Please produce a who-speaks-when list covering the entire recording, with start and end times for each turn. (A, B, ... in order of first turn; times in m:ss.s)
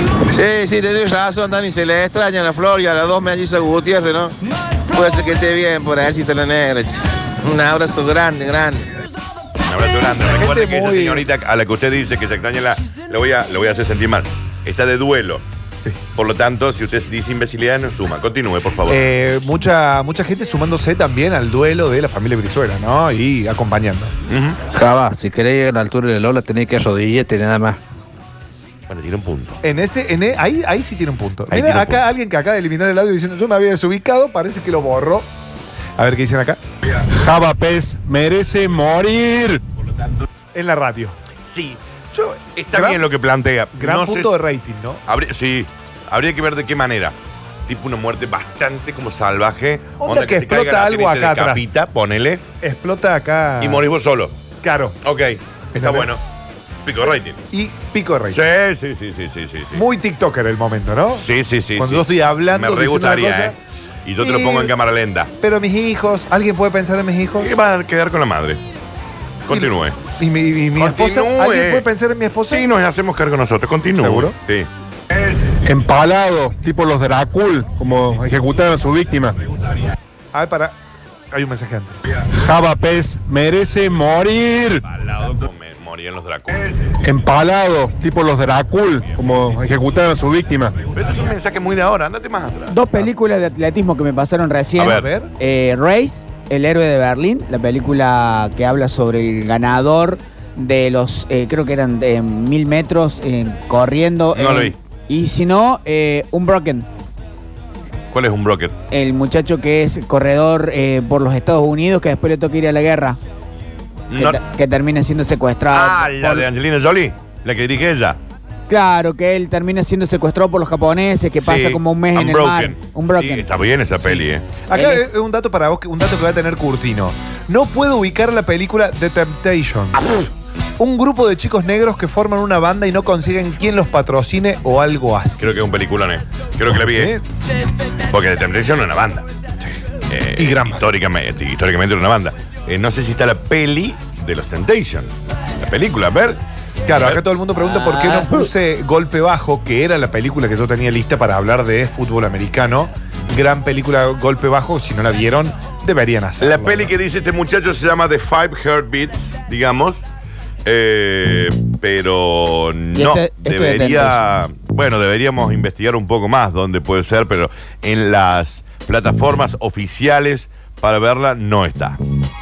0:00.3-0:04.4 A
0:04.9-0:08.8 A
0:09.7-0:15.4 B
0:10.3-0:11.3 C
0:16.2-0:19.1 B
0:18.9-0:24.1 C
0:24.3-0:24.6 B
0:24.7-0:27.8 D
0:28.9-0:29.6 B
0:29.6-0:35.3 C
0:31.5-0:32.0 B
0:36.0-0:36.6 C
0:37.1-0:39.6 E
0:40.5-0:41.2 C
0:41.5-0:41.8 B
0:42.1-0:43.1 C
0:42.6-0:44.4 B
0:43.8-0:45.0 C
0:45.1-0:47.2 B
0:47.7-0:52.4 B
0:50.0-0:51.7 C
0:52.6-0:53.9 C
0:53.6-0:54.4 B
0:54.6-0:55.0 C
0:55.0-0:56.2 B
0:55.7-0:56.1 C
0:56.8-0:57.4 B
0:57.5-0:58.4 C
0:58.3-0:59.8 B
0:59.7-1:03.6 C
1:01.1-1:05.3 B
1:04.2-1:04.7 C
1:05.4-1:07.5 C
1:07.4-1:08.6 B
1:09.4-1:10.0 B
1:09.5-1:12.7 C
1:10.8-1:11.9 B
1:12.5-1:14.7 B
1:14.0-1:14.4 C
1:15.6-1:19.4 E
1:20.3-1:20.7 C
1:21.3-1:22.0 C
1:22.3-1:24.8 E
1:24.8-1:27.0 B
1:27.0-1:30.7 E
1:30.9-1:32.8 B
1:32.7-1:46.9 F
1:34.8-1:35.1 B
1:34.8-1:35.3 C
1:44.3-1:44.8 B
1:48.1-1:48.8 B
1:48.9-1:53.2 F
1:54.1-1:54.4 B
1:54.1-1:56.5 F
1:55.7-1:58.2 B
1:58.7-2:03.5 F
2:01.3-2:04.5 B
2:04.7-2:10.1 C
2:04.7-2:05.0 F
2:10.8-2:15.6 C
2:15.4-2:17.2 B
2:16.7-2:17.3 C
2:18.1-2:19.3 B
2:20.1-2:26.4 B
2:20.4-2:20.8 C
2:26.9-2:37.0 C
2:26.9-2:28.5 B
2:36.4-2:40.0 B
2:40.6-2:52.0 B
2:43.0-2:44.2 F